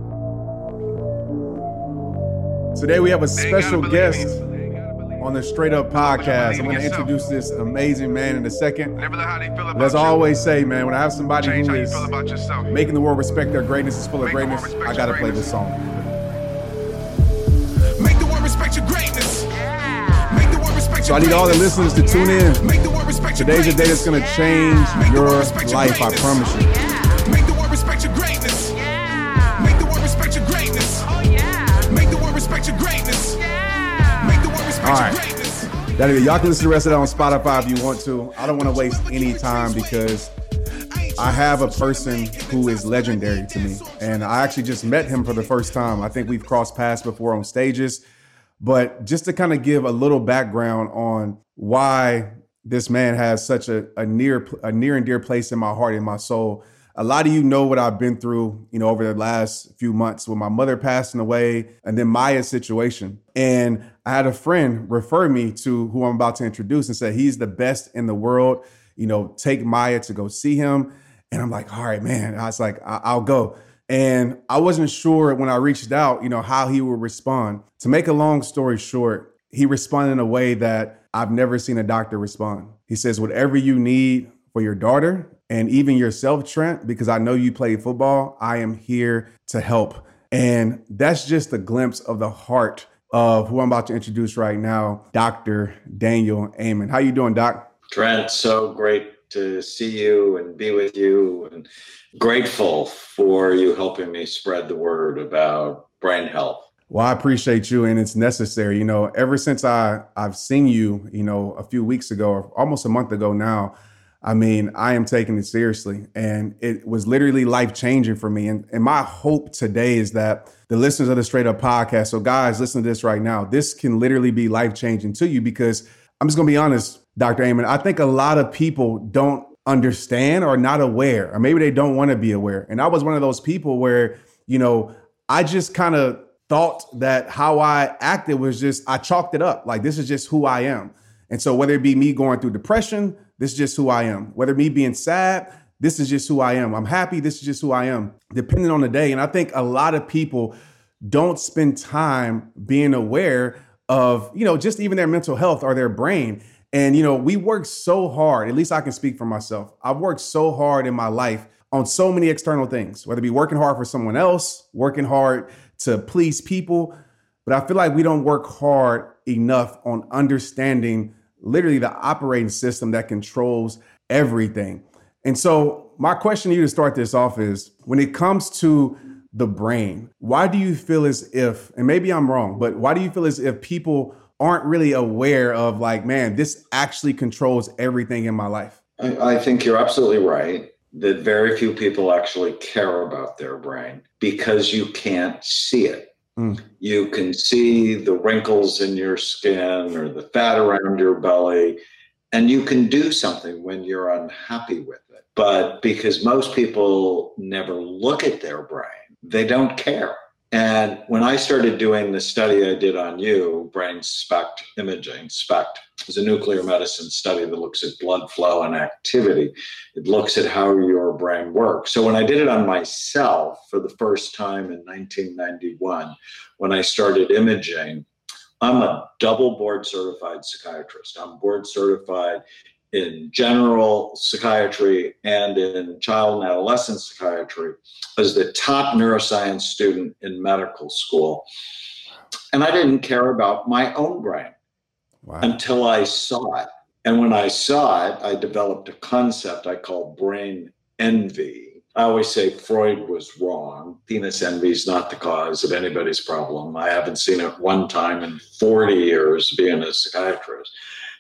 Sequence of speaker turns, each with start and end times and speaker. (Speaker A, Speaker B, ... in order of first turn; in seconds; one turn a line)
Speaker A: 2.7-4.4
Speaker B: 3.4-5.2
Speaker A: 5.2-9.0
Speaker B: 6.0-7.1
Speaker B: 9.0-10.3
Speaker A: 9.8-12.1
Speaker B: 11.4-12.7
Speaker A: 12.7-15.9
Speaker B: 14.2-15.5
Speaker B: 17.9-19.6
Speaker B: 20.2-22.1
Speaker A: 21.0-22.7
Speaker B: 22.6-24.2
Speaker A: 23.4-26.8
Speaker B: 24.9-33.5
Speaker B: 34.1-37.8
Speaker A: 34.8-35.2
Speaker A: 36.0-40.3
Speaker B: 38.5-40.2
Speaker B: 40.9-46.2
Speaker A: 41.2-48.0
Speaker A: 48.6-97.7
Speaker C: 97.9-106.7
Speaker A: 106.9-150.5
Speaker A: 151.1-166.9
Speaker A: 167.5-188.8
Speaker C: 189.0-196.1
Speaker C: 196.8-201.8
Speaker C: 202.3-228.1
Speaker C: 228.6-232.4
Speaker C: 232.9-241.5
Speaker C: 242.5-244.5
Speaker A: 245.2-245.5
Speaker C: 245.4-260.7